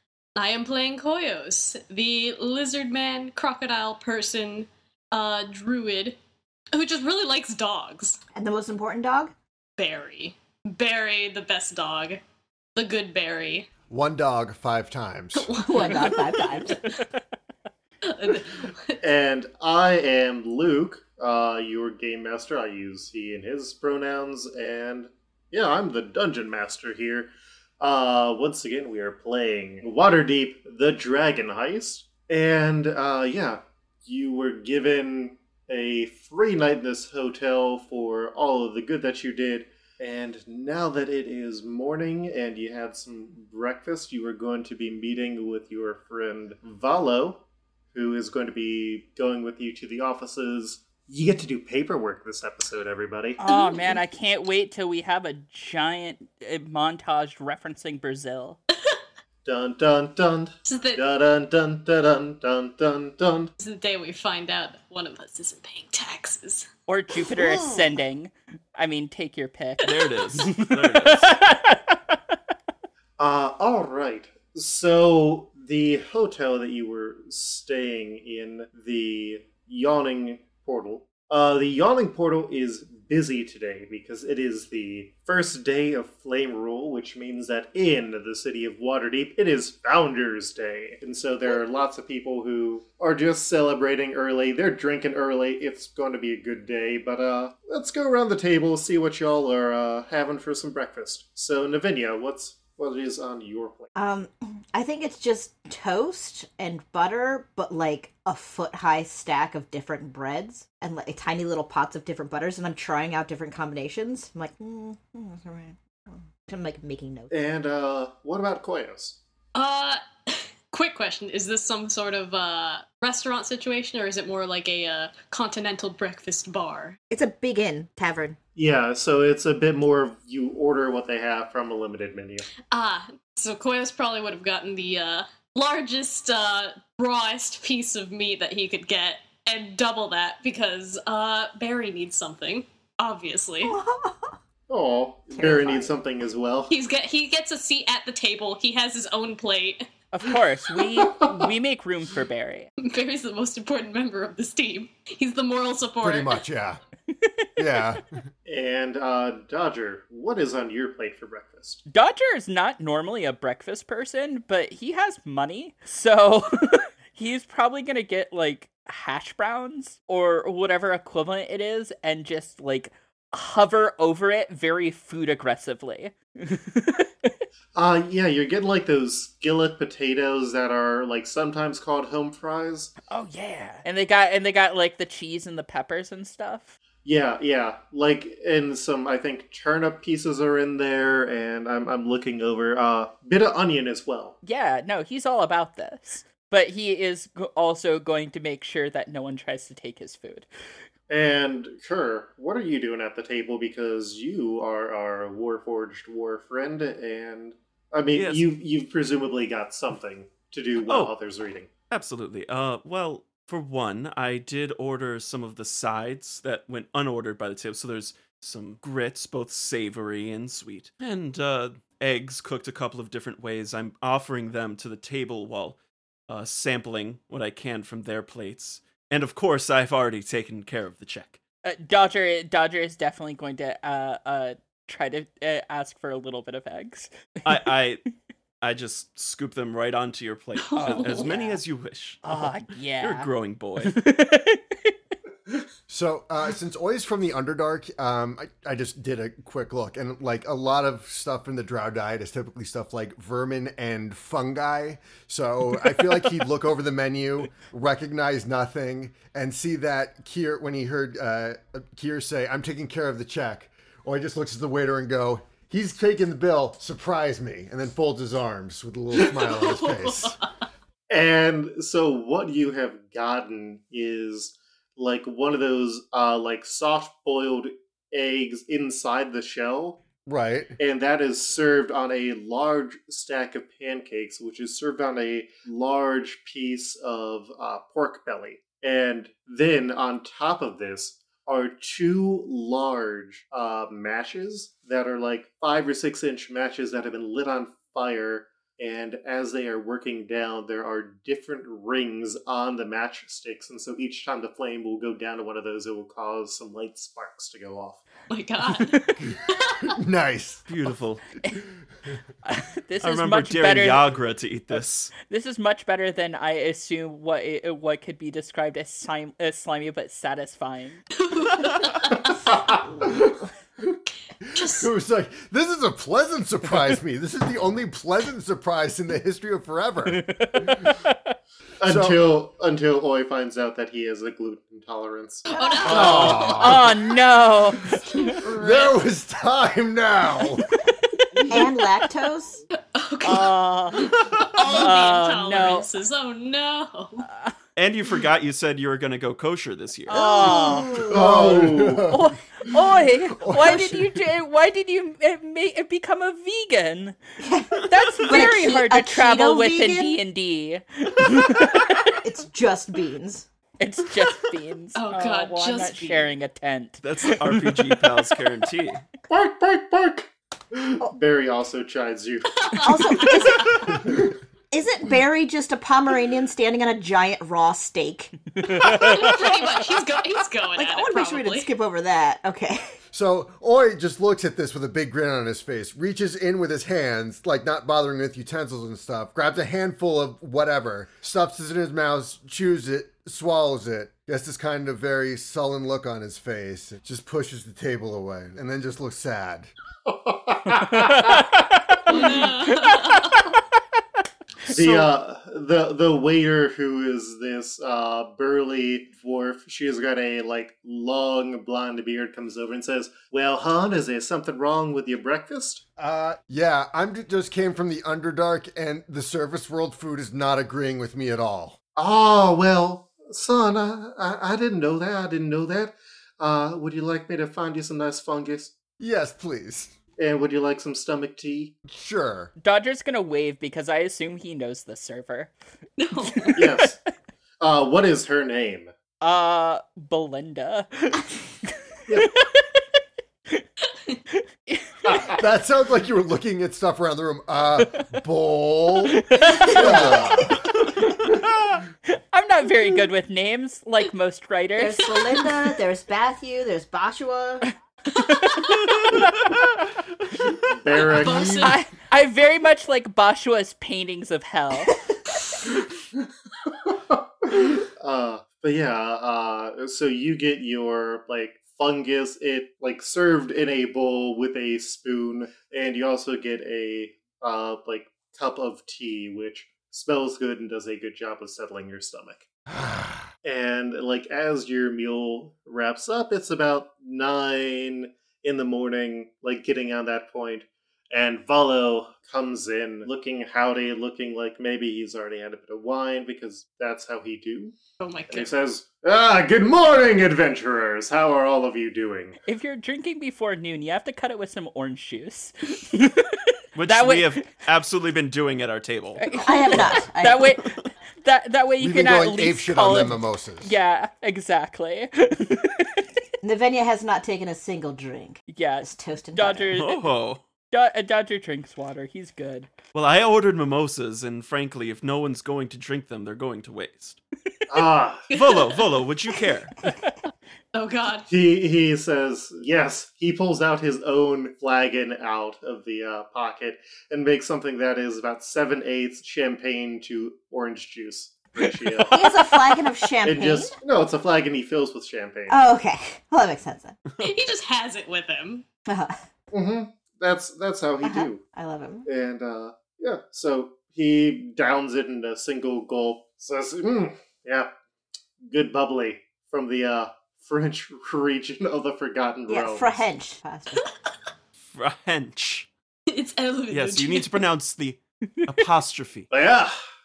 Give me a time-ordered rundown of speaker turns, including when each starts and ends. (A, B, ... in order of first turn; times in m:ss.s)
0:00.3-0:06.2 A
0:06.7-0:08.2 A
0:08.3-0:09.3 B
0:09.8-0:12.2 A
0:12.8-0:13.7 A
0:13.9-0:15.6 C
0:15.3-0:16.9 A
0:15.6-0:16.8 B
0:18.0-0:19.0 A
0:19.0-0:53.4 D
0:53.4-0:58.6 E
0:53.7-0:54.0 A
0:59.4-1:03.5 D
1:00.7-1:01.0 A
1:03.6-1:06.7 A
1:06.9-1:12.2 E
1:07.3-1:07.8 B
1:09.8-1:11.4 F
1:13.2-1:43.9 D
1:43.9-1:57.3 B
1:57.3-1:59.2 D
1:59.5-2:07.0 A
2:07.1-2:08.4 B
2:08.6-2:12.5 D
2:12.7-2:23.8 A
2:23.6-2:24.4 B
2:24.7-2:26.7 D
2:25.3-2:26.0 B
2:26.7-2:29.8 A
2:30.1-2:32.7 E
2:32.8-2:36.4 A
2:36.0-2:36.8 C
2:37.2-2:37.8 E
2:37.6-2:38.1 C
2:38.4-2:41.8 D
2:41.9-2:57.4 E
2:57.7-3:02.9 D
3:03.1-3:06.8 E
3:07.0-3:14.4 D
3:14.4-3:20.5 E
3:21.1-3:31.7 D
3:28.1-3:28.5 F
3:30.8-3:31.1 F
3:31.9-3:51.4 F
3:51.6-3:57.6 E
3:57.4-3:58.0 F
3:58.6-4:04.0 F
4:00.6-4:01.4 A
4:00.8-4:01.6 E
4:02.2-4:04.9 E
4:05.9-4:30.4 C
4:29.2-4:30.4 A
4:31.1-4:40.0 D
4:40.2-4:40.8 C
4:40.8-5:08.0 D
5:08.3-5:09.9 A
5:08.7-5:09.2 E
5:09.9-5:10.7 C
5:10.7-5:11.2 F
5:12.4-5:14.1 E
5:13.0-5:15.1 F
5:15.2-5:21.0 E
5:21.2-5:22.4 A
5:22.4-5:23.0 D
5:24.5-5:24.9 A
5:24.6-5:30.9 C
5:30.1-5:31.3 E
5:31.8-5:36.7 D
5:31.8-5:32.2 C
5:35.5-5:36.6 A
5:35.5-5:35.9 B
5:35.8-5:37.0 C
5:36.2-5:38.3 E
5:37.9-5:40.7 C
5:38.2-5:39.0 A
5:41.5-5:42.6 B
5:42.9-5:47.2 A
5:43.2-5:44.1 E
5:44.6-5:45.8 E
5:47.2-5:47.5 E
5:47.8-5:50.2 F
5:50.1-5:51.0 E
5:50.1-5:51.3 B
5:51.0-5:52.3 C
5:51.1-5:52.1 D
5:52.1-5:57.2 E
5:53.3-5:54.1 C
5:57.4-6:00.2 B
5:57.8-6:02.1 E
5:58.2-5:58.5 F
6:02.2-6:03.5 B
6:03.8-6:08.3 E
6:04.9-6:06.3 A
6:07.0-6:09.1 F
6:09.3-6:13.0 D
6:12.6-6:13.9 A
6:12.8-6:14.2 B
6:14.7-6:19.5 B
6:18.5-6:19.5 E
6:18.9-6:21.7 A
6:20.7-6:22.9 B
6:23.1-6:39.7 C
6:40.0-6:41.4 D
6:40.7-6:43.6 E
6:42.1-6:43.4 A
6:44.7-6:55.8 D
6:44.7-6:45.1 F
6:56.0-7:01.8 C
7:02.0-7:08.7 D
7:09.0-7:09.9 C
7:10.2-7:11.8 D
7:11.9-7:12.5 C
7:12.6-7:15.5 E
7:16.0-7:16.6 A
7:16.2-7:16.9 E
7:16.6-7:17.0 D
7:17.6-7:18.9 D
7:19.2-7:22.8 E
7:24.3-7:25.3 E
7:25.1-7:25.4 D
7:25.4-7:30.6 C
7:29.1-7:31.3 E
7:29.6-7:30.4 B
7:32.1-7:35.1 E
7:34.8-7:37.6 B
7:38.1-7:39.5 E
7:38.4-7:38.7 A
7:38.9-7:39.8 F
7:40.3-7:40.6 F
7:40.8-7:41.6 D
7:40.9-7:41.8 A
7:41.2-7:41.7 C
7:41.6-7:44.9 E
7:46.8-8:02.5 D
8:02.7-8:03.2 C
8:03.4-8:17.8 D
8:18.0-8:18.5 A
8:18.3-8:22.4 D
8:22.4-8:27.6 E
8:26.7-8:30.0 F
8:29.2-8:36.0 E
8:29.4-8:30.5 B
8:31.8-8:33.7 C
8:36.4-8:39.7 B
8:38.5-8:40.0 E
8:39.7-8:40.4 F
8:40.7-8:42.7 E
8:42.9-8:47.2 F
8:47.7-8:48.3 D
8:48.3-8:48.7 A
8:48.3-8:49.9 F
8:50.7-8:51.3 A
8:51.3-9:02.5 D
9:02.1-9:03.8 B
9:03.2-9:05.6 D
9:05.5-9:07.0 B
9:07.2-9:08.6 A
9:08.8-9:09.2 B
9:09.5-9:11.4 D
9:11.0-9:12.1 B
9:12.0-9:17.7 D
9:18.4-9:23.0 D
9:22.5-9:23.8 B
9:24.7-9:25.7 F
9:26.1-9:27.4 A
9:26.7-9:29.3 F
9:29.3-9:29.7 D